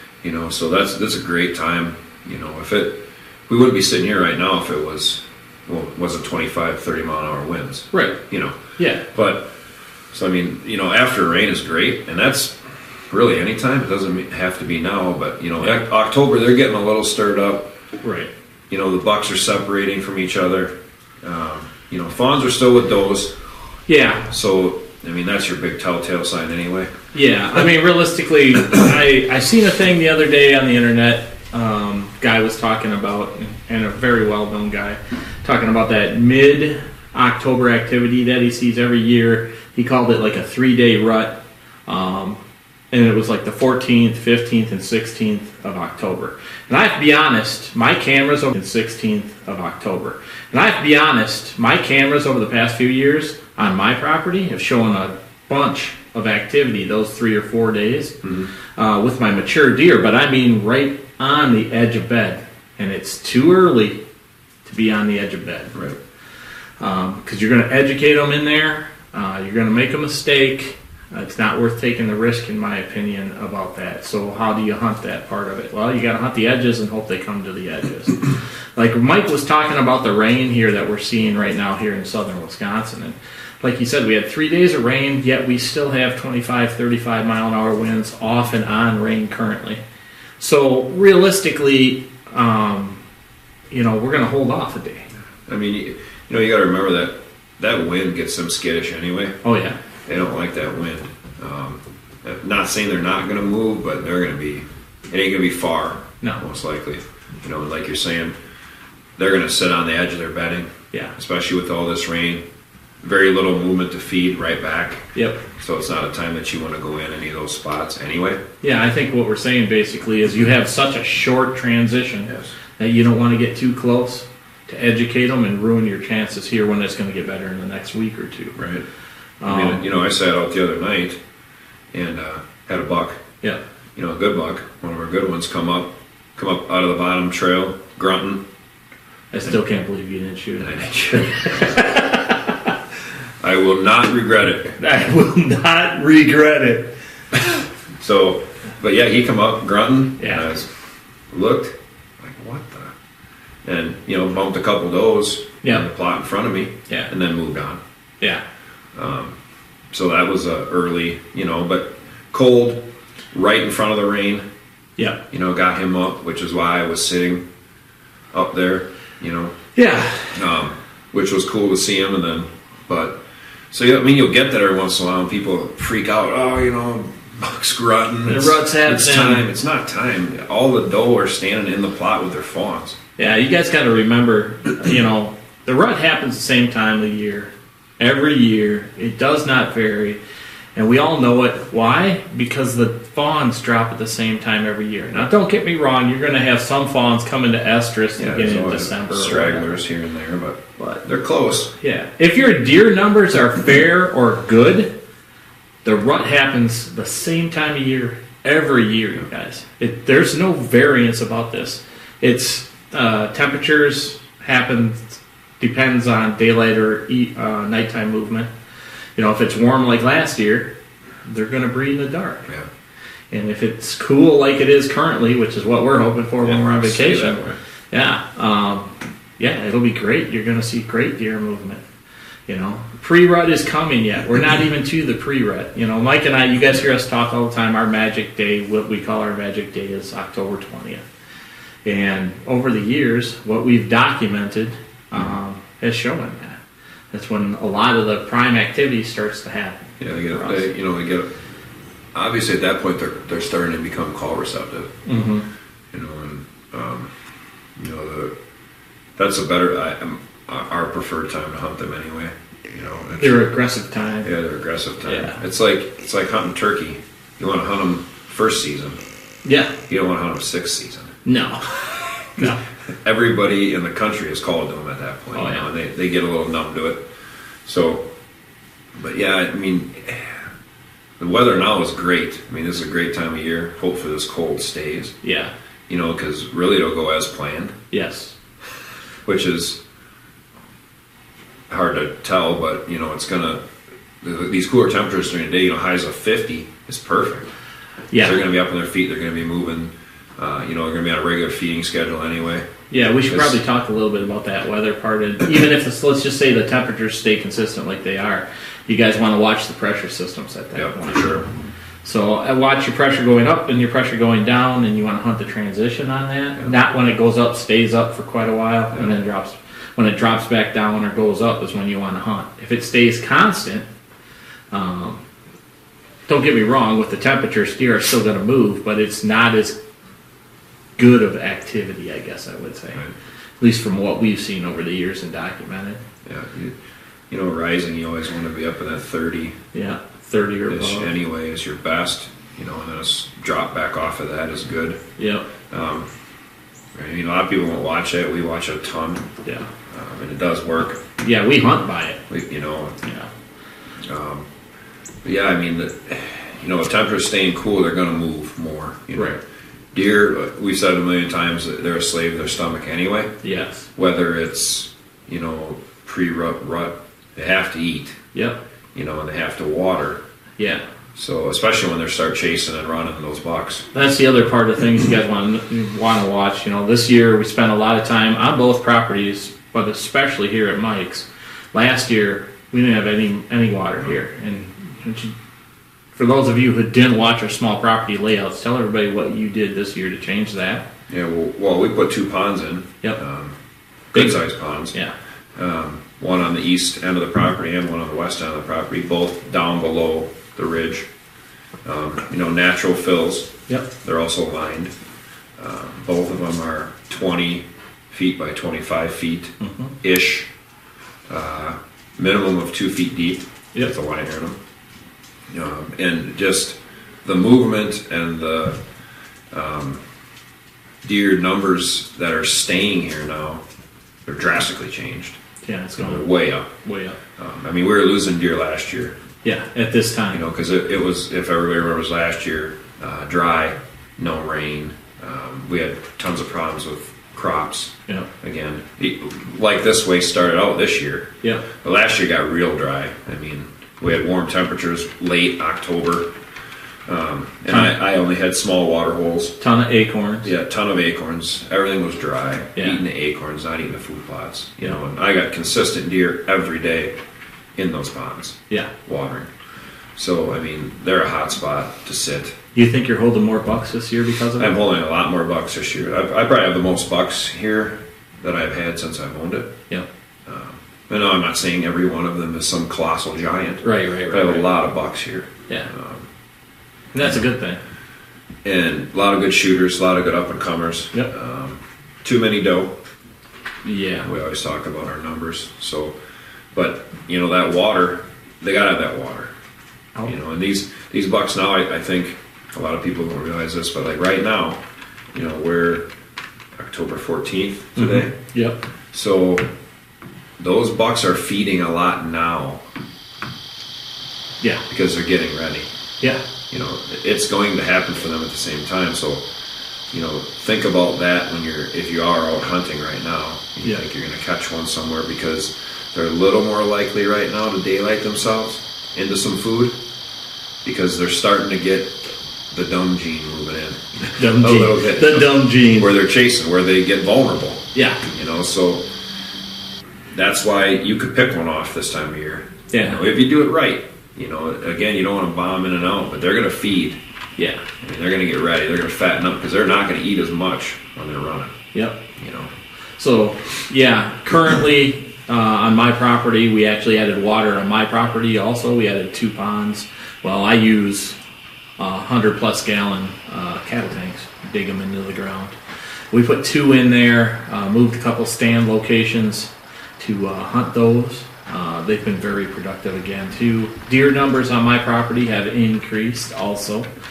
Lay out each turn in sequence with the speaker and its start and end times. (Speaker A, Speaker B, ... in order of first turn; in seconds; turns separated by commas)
Speaker A: 0.2-8.6, Speaker B: 7.9-8.2, Speaker B: 8.8-9.0, Speaker A: 9.1-9.5, Speaker A: 10.1-17.7, Speaker B: 18.0-18.3, Speaker A: 18.7-23.3, Speaker B: 23.9-24.3, Speaker A: 24.3-26.9, Speaker B: 27.1-42.4, Speaker B: 42.9-58.2, Speaker A: 58.2-58.5, Speaker B: 58.8-64.0, Speaker B: 64.7-65.7, Speaker B: 66.8-89.8, Speaker B: 90.4-93.0, Speaker B: 93.7-95.1, Speaker A: 95.5-99.4, Speaker B: 99.4-99.8, Speaker A: 100.1-108.3, Speaker A: 109.2-112.4, Speaker A: 113.0-118.4, Speaker B: 115.2-115.4, Speaker B: 118.6-128.6, Speaker A: 122.3-122.5, Speaker A: 128.6-128.8, Speaker B: 129.4-129.9, Speaker A: 129.4-131.2, Speaker A: 131.9-133.2, Speaker A: 134.0-138.4, Speaker B: 139.3-142.7, Speaker A: 140.6-141.8, Speaker A: 143.4-144.8, Speaker B: 144.8-147.4, Speaker A: 148.0-150.7, Speaker B: 150.2-150.5, Speaker A: 151.3-152.9, Speaker A: 153.7-157.8, Speaker A: 159.0-159.4, Speaker A: 159.9-164.4, Speaker A: 165.3-167.4, Speaker A: 168.3-169.6, Speaker B: 169.8-170.4, Speaker A: 170.3-173.2, Speaker A: 173.7-183.0, Speaker B: 178.2-179.5, Speaker B: 183.2-190.2, Speaker B: 190.8-199.7, Speaker A: 198.2-201.7, Speaker B: 200.8-201.0, Speaker B: 201.8-204.9, Speaker B: 205.8-218.5, Speaker B: 219.2-220.7, Speaker B: 221.2-222.5, Speaker B: 223.3-231.8, Speaker A: 226.4-227.6, Speaker B: 232.5-241.0, Speaker B: 241.8-246.6, Speaker B: 247.1-250.7, Speaker A: 250.0-251.3, Speaker A: 252.1-254.9, Speaker B: 255.1-255.5, Speaker A: 255.9-257.1, Speaker A: 257.8-258.3, Speaker A: 259.2-263.5, Speaker B: 263.2-264.3, Speaker A: 264.2-269.0, Speaker B: 265.1-265.4, Speaker B: 269.4-269.8, Speaker A: 269.9-271.1, Speaker B: 271.2-272.6, Speaker A: 273.0-277.0, Speaker B: 275.3-275.7, Speaker A: 277.6-278.1, Speaker A: 279.0-280.4, Speaker A: 281.2-285.1, Speaker B: 285.2-285.5, Speaker A: 285.9-287.8, Speaker B: 287.9-288.4, Speaker A: 289.3-289.8, Speaker A: 291.7-293.6, Speaker A: 294.2-297.5, Speaker B: 298.1-298.4, Speaker A: 298.2-302.7, Speaker B: 302.9-311.5, Speaker A: 303.3-303.6, Speaker A: 310.8-311.4, Speaker B: 312.0-323.9, Speaker B: 324.7-325.2, Speaker B: 326.3-329.8, Speaker B: 331.0-333.0, Speaker B: 333.6-336.0, Speaker A: 336.3-336.8, Speaker A: 337.3-339.6, Speaker B: 339.7-341.1, Speaker A: 340.7-345.0, Speaker B: 345.2-345.5, Speaker A: 345.7-346.1, Speaker A: 346.9-349.3, Speaker A: 349.9-351.0, Speaker B: 351.2-352.2, Speaker A: 352.3-353.0, Speaker B: 353.0-353.3, Speaker A: 354.1-354.5, Speaker A: 355.2-359.4, Speaker A: 359.9-363.4, Speaker B: 363.4-363.9, Speaker A: 364.0-368.2, Speaker B: 368.3-368.6, Speaker A: 368.9-370.2, Speaker A: 371.1-373.9, Speaker B: 373.9-385.3, Speaker B: 386.1-390.9, Speaker A: 391.1-393.6, Speaker A: 394.1-394.9, Speaker B: 394.1-394.4, Speaker A: 395.6-401.1, Speaker A: 401.9-404.9, Speaker A: 405.6-410.5, Speaker B: 409.6-409.9, Speaker A: 411.3-414.6, Speaker A: 415.5-418.8, Speaker A: 419.5-420.0, Speaker A: 421.0-423.6, Speaker A: 424.3-425.4, Speaker B: 425.6-426.3, Speaker A: 426.0-426.7, Speaker B: 426.8-427.2, Speaker A: 427.4-429.2, Speaker B: 429.4-430.4, Speaker A: 430.3-441.3, Speaker A: 441.8-446.3, Speaker A: 447.1-449.6, Speaker B: 447.7-447.9, Speaker B: 449.6-450.5, Speaker A: 450.4-457.1, Speaker A: 457.8-459.5, Speaker A: 460.2-462.5, Speaker B: 462.8-464.7, Speaker A: 464.6-469.7, Speaker A: 470.5-476.3, Speaker B: 473.8-474.7, Speaker B: 477.1-477.8, Speaker A: 478.6-482.9, Speaker B: 483.8-484.3, Speaker A: 484.2-486.1, Speaker A: 486.7-489.5, Speaker A: 490.3-494.8, Speaker A: 495.3-496.1, Speaker A: 496.8-498.3, Speaker B: 498.0-498.8, Speaker A: 499.1-499.7, Speaker A: 500.6-502.8, Speaker A: 504.9-505.9, Speaker A: 506.7-509.4, Speaker A: 510.1-520.0, Speaker A: 520.8-529.1, Speaker B: 524.4-526.1, Speaker B: 527.9-528.2, Speaker A: 530.3-537.2, Speaker B: 532.9-533.2, Speaker B: 537.6-537.8, Speaker A: 538.0-541.7, Speaker B: 541.9-542.2, Speaker A: 542.4-542.7, Speaker B: 543.2-551.4, Speaker B: 552.0-555.8, Speaker B: 556.3-567.1